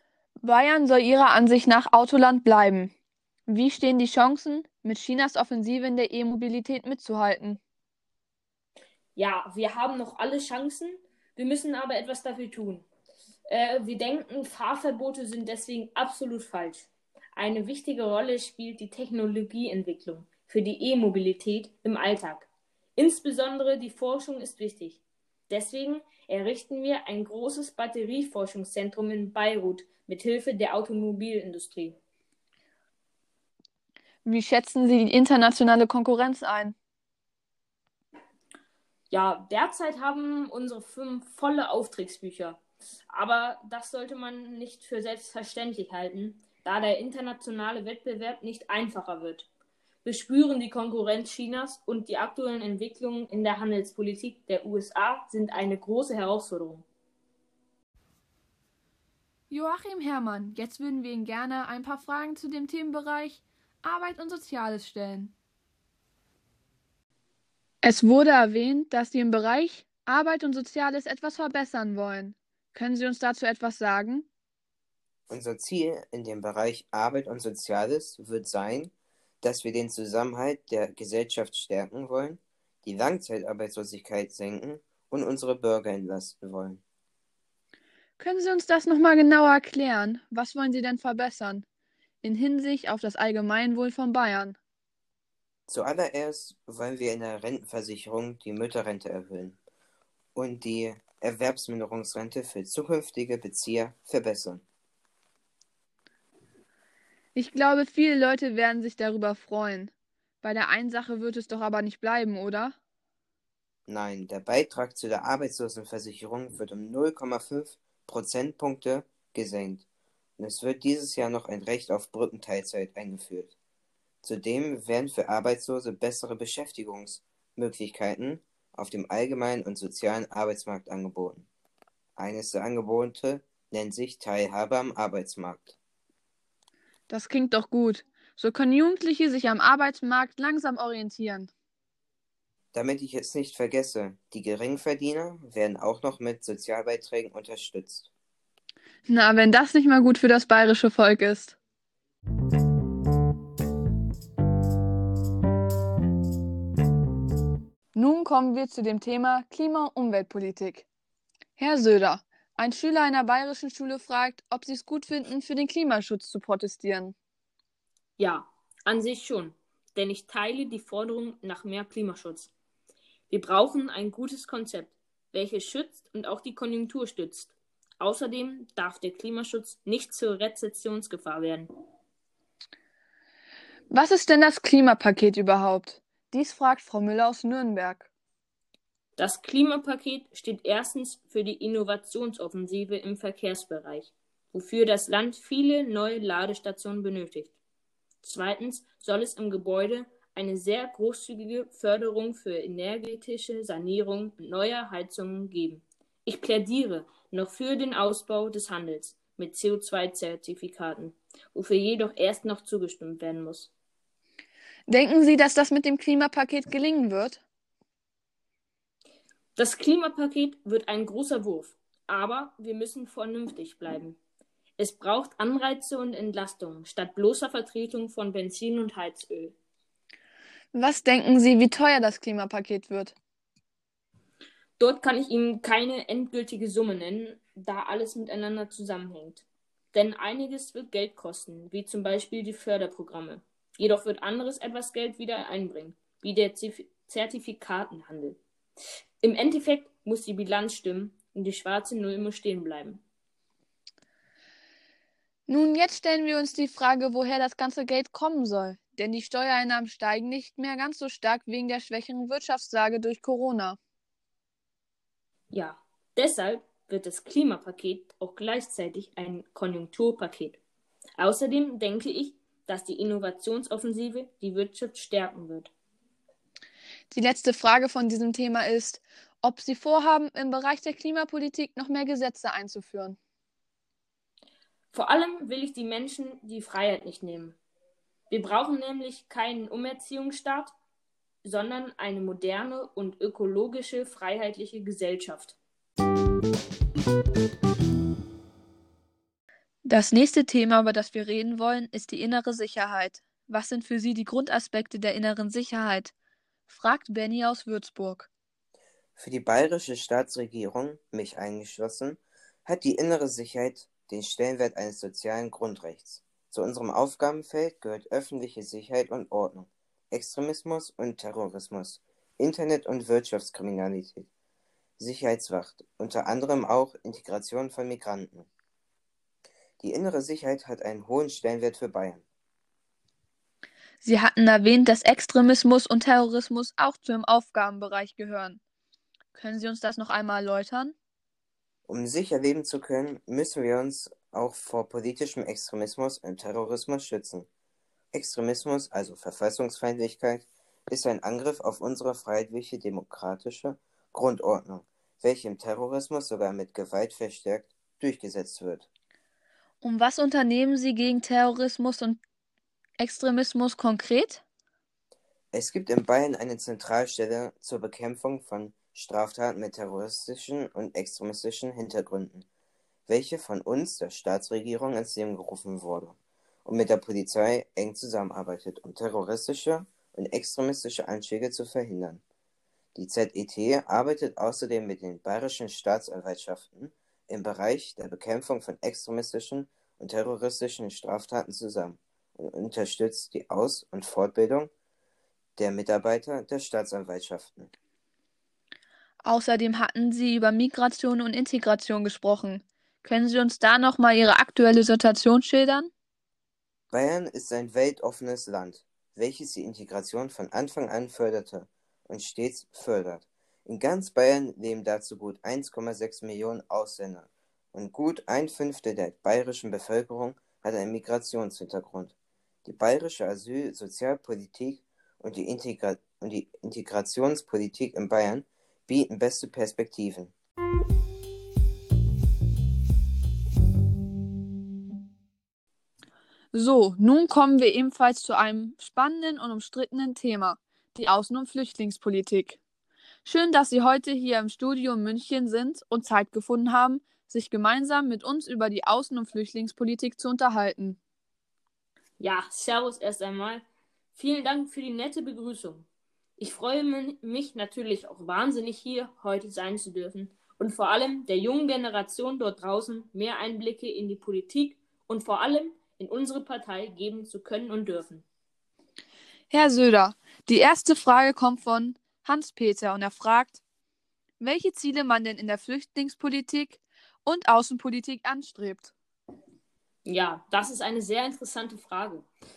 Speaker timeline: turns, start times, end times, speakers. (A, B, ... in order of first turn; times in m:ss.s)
0:00.4-0:02.9 A
0:03.5-0:07.6 A
0:09.2-0:12.8 B
0:13.5-0:32.0 B
0:34.2-0:36.8 A
0:39.1-0:49.5 B
0:50.0-0:56.8 B
0:59.5-1:05.3 A
1:07.8-1:14.3 A
1:15.3-1:26.8 C
1:28.2-1:31.6 A
1:32.2-1:34.6 A
1:35.7-1:39.6 C
1:40.3-1:44.6 C
1:47.3-1:52.8 A
1:53.9-1:59.8 C
2:00.4-2:03.5 C
2:04.2-2:11.5 C
2:12.2-2:15.8 C
2:17.1-2:21.5 A
2:22.7-2:28.1 C
2:29.0-2:31.6 A
2:37.9-2:40.8 A
2:41.6-2:47.1 A
2:48.2-2:52.5 B
2:53.3-3:01.7 B
3:03.9-3:08.1 A
3:09.2-3:17.5 B
3:18.2-3:33.7 B
3:34.9-3:37.4 A
3:39.6-3:44.2 B
3:44.8-3:49.5 B
3:50.7-3:53.2 A
3:54.8-4:08.4 B
4:09.2-4:13.0 B
4:15.5-4:23.8 A
4:25.5-4:30.6 B
4:31.2-4:35.7 B
4:37.1-4:43.2 A
4:44.9-4:47.6 B
4:48.3-4:50.7 B
4:51.4-4:55.6 B
4:59.8-5:06.1 A
5:06.7-5:08.3 A
5:09.2-5:24.3 C
5:25.0-5:28.5 C
5:29.8-5:32.2 C
5:34.0-5:38.6 A
5:39.3-5:40.9 A
5:41.9-5:47.5 C
5:48.1-5:58.9 C
5:59.8-6:02.2 A
6:03.0-6:04.4 A
6:05.5-6:12.4 C
6:13.1-6:22.2 C
6:22.9-6:34.7 C
6:35.6-6:37.7 C
6:39.2-6:45.9 A
6:46.9-7:02.1 C
7:02.6-7:10.3 C
7:16.5-7:22.6 A
7:23.2-7:31.0 A
7:32.2-7:33.6 B
7:34.1-7:35.8 B
7:36.4-7:48.2 B
7:49.5-7:53.6 A
7:54.4-7:58.9 A
8:00.0-8:02.3 B